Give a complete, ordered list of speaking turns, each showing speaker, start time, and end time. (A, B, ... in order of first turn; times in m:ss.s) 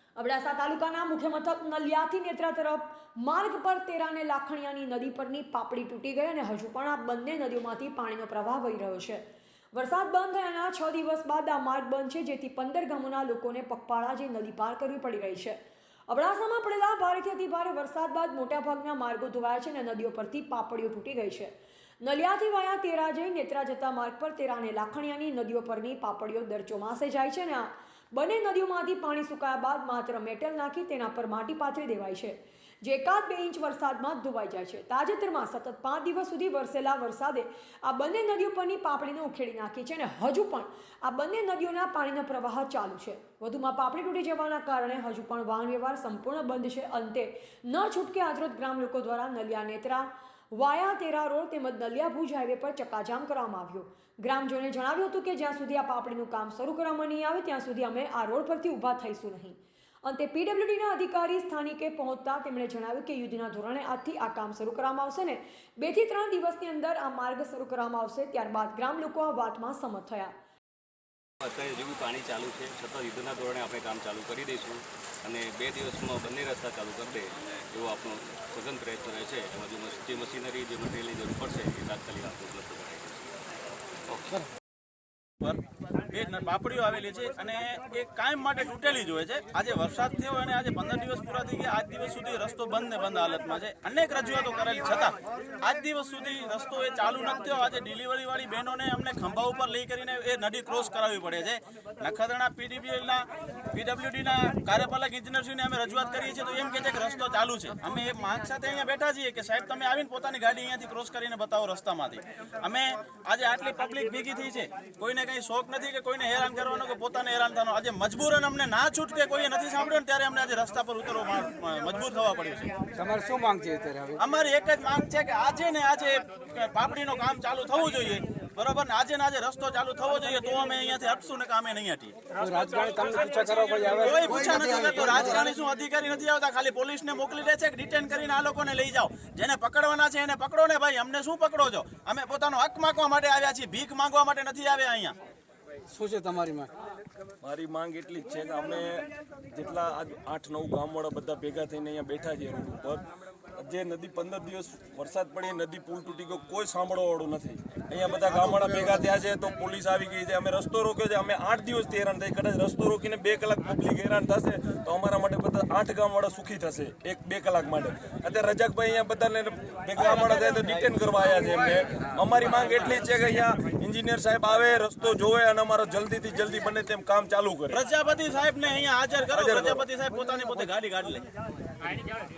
0:00.2-1:10.3 A
1:11.4-1:23.3 B
1:24.1-1:24.5 C
1:25.4-2:02.7 D
2:02.9-2:04.2 C
2:04.2-2:12.4 D
2:12.4-2:15.2 C
2:13.0-2:25.2 D
2:25.9-2:26.7 C
2:27.4-2:33.0 E
2:33.6-2:57.8 E
2:50.0-2:50.5 D
2:57.7-3:01.2 D
2:59.3-2:59.8 E